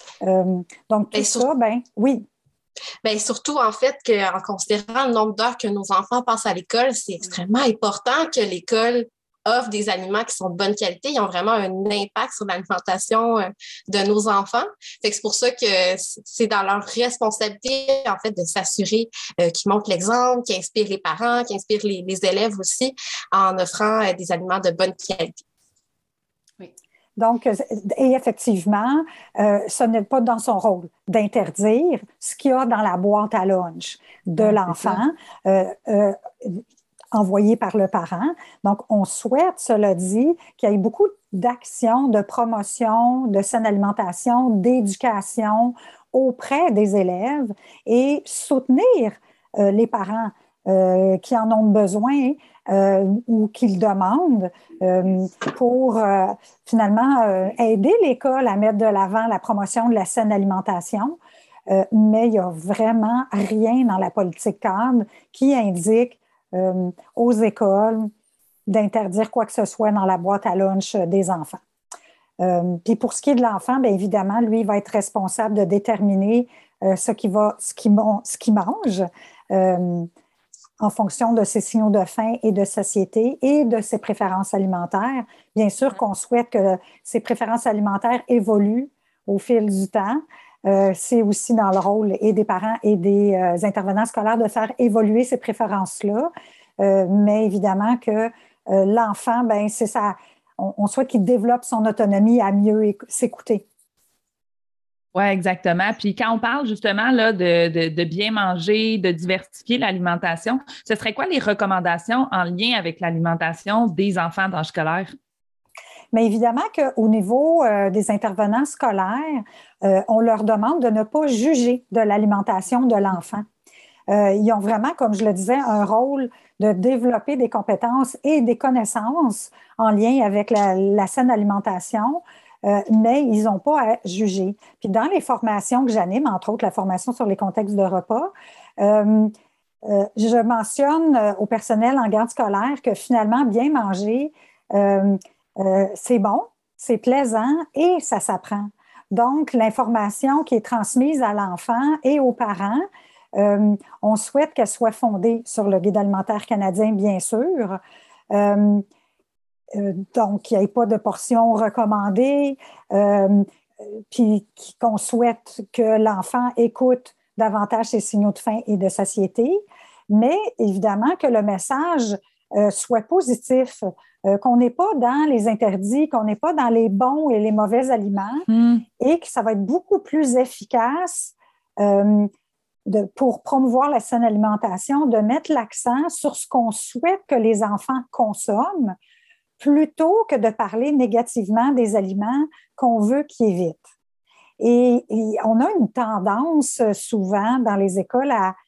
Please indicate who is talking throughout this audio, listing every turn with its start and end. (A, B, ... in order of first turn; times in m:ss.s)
0:00.2-0:02.2 A
0:01.1-0:01.4 B
0:03.0-0:25.4 B
0:27.2-1:08.1 A
0:34.4-0:35.0 C
1:08.7-1:11.6 A
1:12.4-1:20.1 A
1:20.8-1:43.6 A
1:45.1-1:55.1 C
1:56.1-2:03.4 A
2:04.1-2:19.3 A
2:19.8-2:37.8 A
2:38.3-2:38.8 A
2:39.7-2:58.5 A
2:58.5-2:58.8 C
2:59.0-3:02.3 A
3:02.9-3:09.0 A
3:09.6-3:13.9 A
3:14.6-3:18.5 A